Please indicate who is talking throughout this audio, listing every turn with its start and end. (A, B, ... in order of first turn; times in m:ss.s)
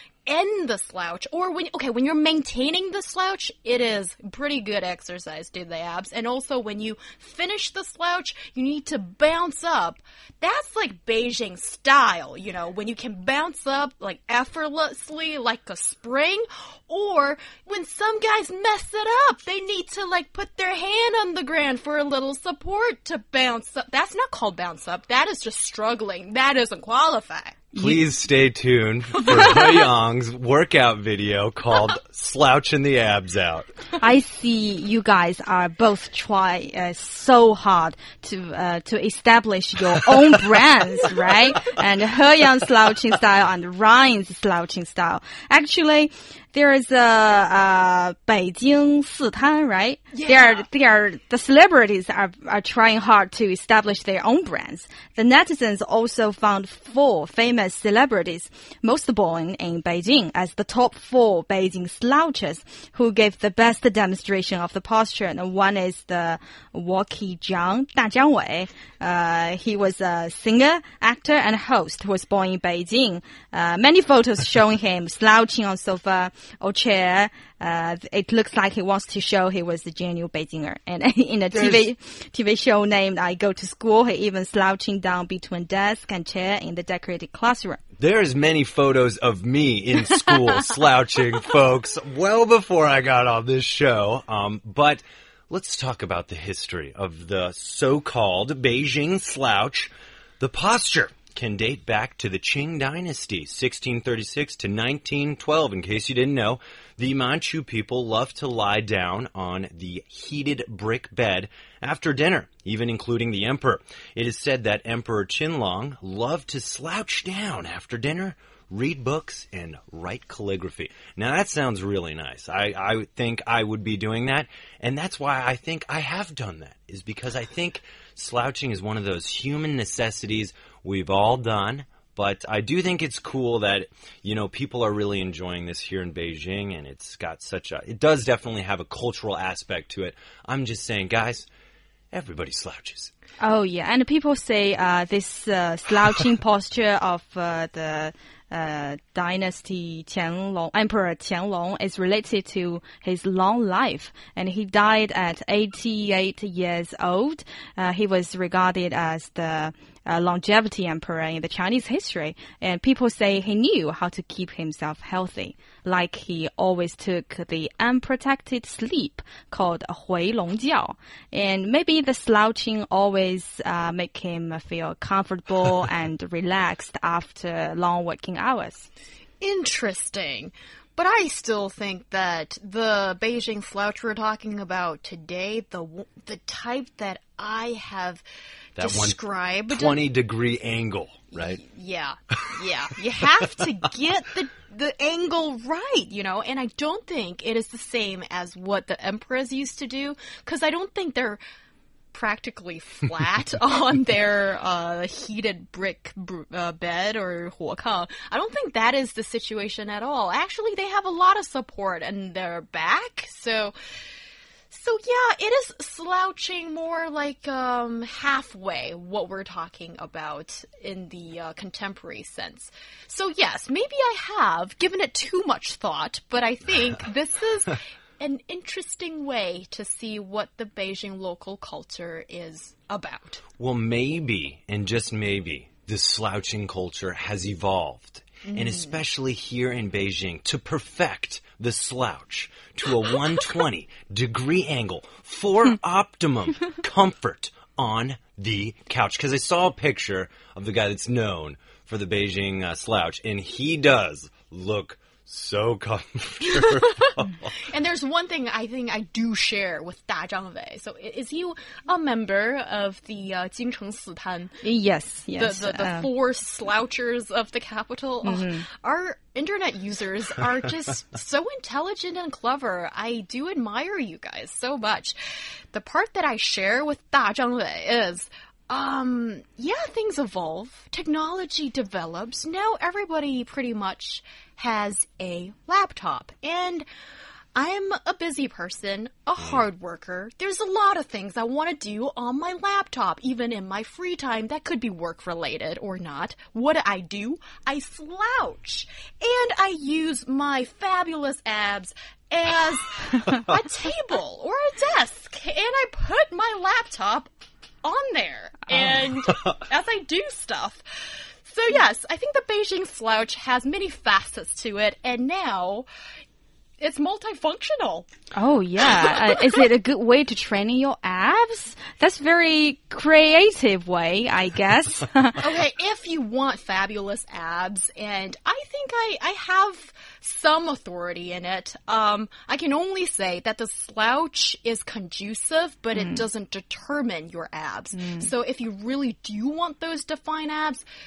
0:00.3-0:27.7 A
0:27.7-0:28.0 B
0:27.8-0:33.7 C
0:34.0-1:27.8 B
0:50.1-0:50.7 A
1:21.5-1:21.8 C
1:28.0-2:21.5 C
2:22.1-2:23.1 C
2:23.4-2:58.9 B
2:59.4-3:08.2 A
3:08.8-3:10.1 A
3:08.8-3:09.2 C
3:09.7-3:11.6 C
3:11.3-3:21.4 A
3:22.1-3:33.7 A
3:34.7-3:53.4 A
3:53.6-4:17.6 C
3:58.5-3:59.0 A
4:17.7-4:24.6 A
4:24.6-4:26.1 B
4:25.4-4:35.2 A
4:28.2-4:28.7 B
4:35.7-4:46.9 A
4:47.6-5:07.3 A
5:07.8-5:15.9 A
5:16.8-5:18.1 A
5:18.4-5:25.4 B
5:25.4-5:40.8 A
5:36.0-5:36.2 B
5:38.0-5:38.3 B